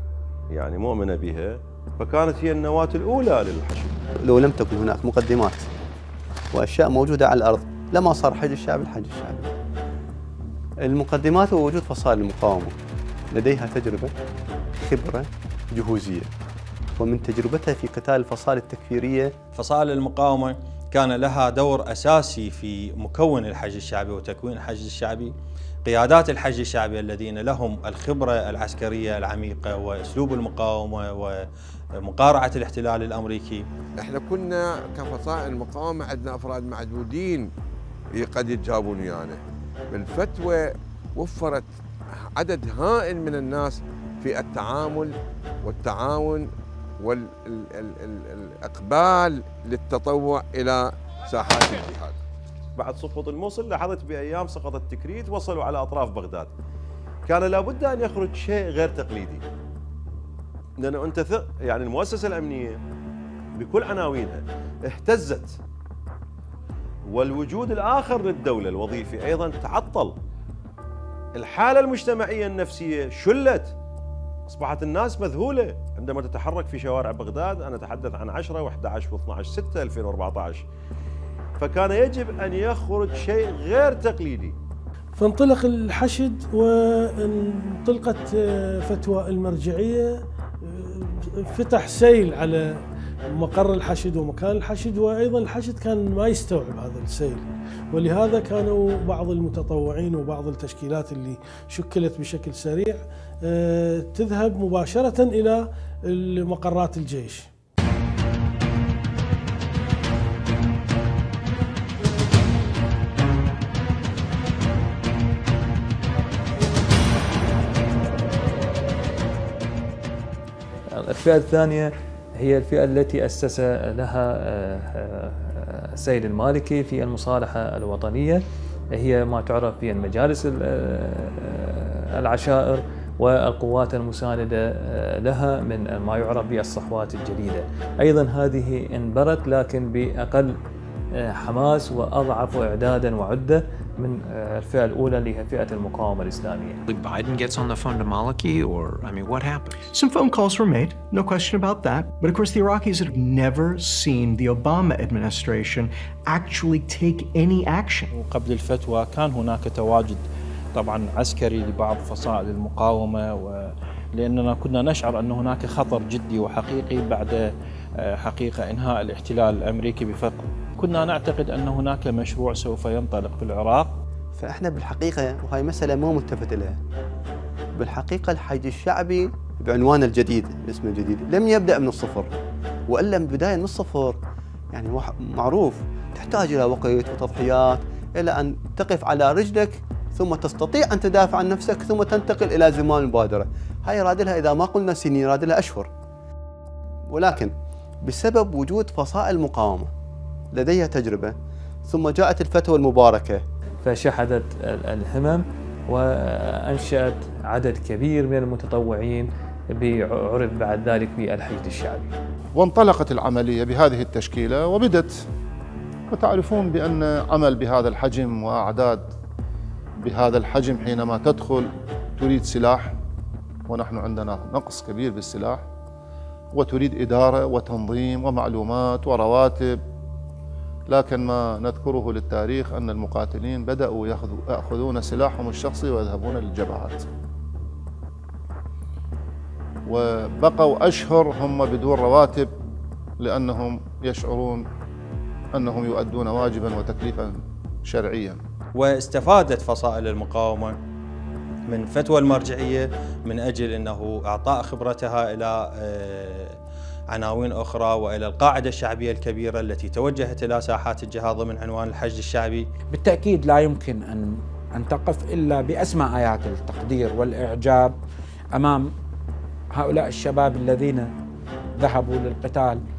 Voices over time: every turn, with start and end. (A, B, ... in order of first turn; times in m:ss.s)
0:00.5-0:04.0 A
0:04.2-0:05.7 B
0:06.5-0:09.5 B
0:10.8-0:12.8 B
0:13.3-0:14.1 B
0:14.8-0:16.3 B
0:17.0-0:19.4 B
0:19.6-0:25.3 C
0:25.9-0:31.5 C
0:32.0-0:33.6 C
0:34.0-0:37.5 D
0:38.2-0:39.4 D
0:39.9-0:40.6 D
0:41.2-0:41.7 D
0:42.4-0:45.1 D
0:45.6-0:46.5 D
0:47.0-0:52.2 D
0:52.8-0:56.5 A
0:57.3-0:59.4 A
1:00.8-1:02.8 A
1:03.6-1:05.5 A
1:07.1-1:10.2 A
1:11.4-1:13.7 A
1:14.5-1:20.6 A
1:21.6-1:24.5 A
1:25.2-1:32.7 E
1:33.3-1:47.5 E
2:00.9-2:20.5 F
2:21.1-2:26.8 F
2:26.9-2:29.9 G
2:29.9-2:38.1 H
2:38.1-2:40.2 I
2:40.7-2:47.5 I
2:48.2-2:53.9 I
2:54.4-2:56.8 B
2:57.8-3:02.3 B
3:02.9-3:04.2 B
3:04.7-3:15.9 B
3:17.1-3:19.9 B
3:20.5-3:21.3 B
3:21.9-3:23.4 B
3:23.8-3:32.1 F
3:32.5-3:35.2 J
3:36.1-3:39.1 J
3:40.0-3:43.0 J
3:43.7-3:45.6 J
3:46.5-3:49.8 J
3:50.9-3:57.0 J
3:59.9-4:02.5 J
4:03.2-4:04.7 J
4:05.5-4:08.4 J
4:08.8-4:10.8 C
4:11.7-4:16.6 C
4:17.1-4:22.7 C
4:22.9-4:28.0 K
4:28.6-4:28.9 K
4:29.7-4:31.1 K
4:31.8-4:32.8 K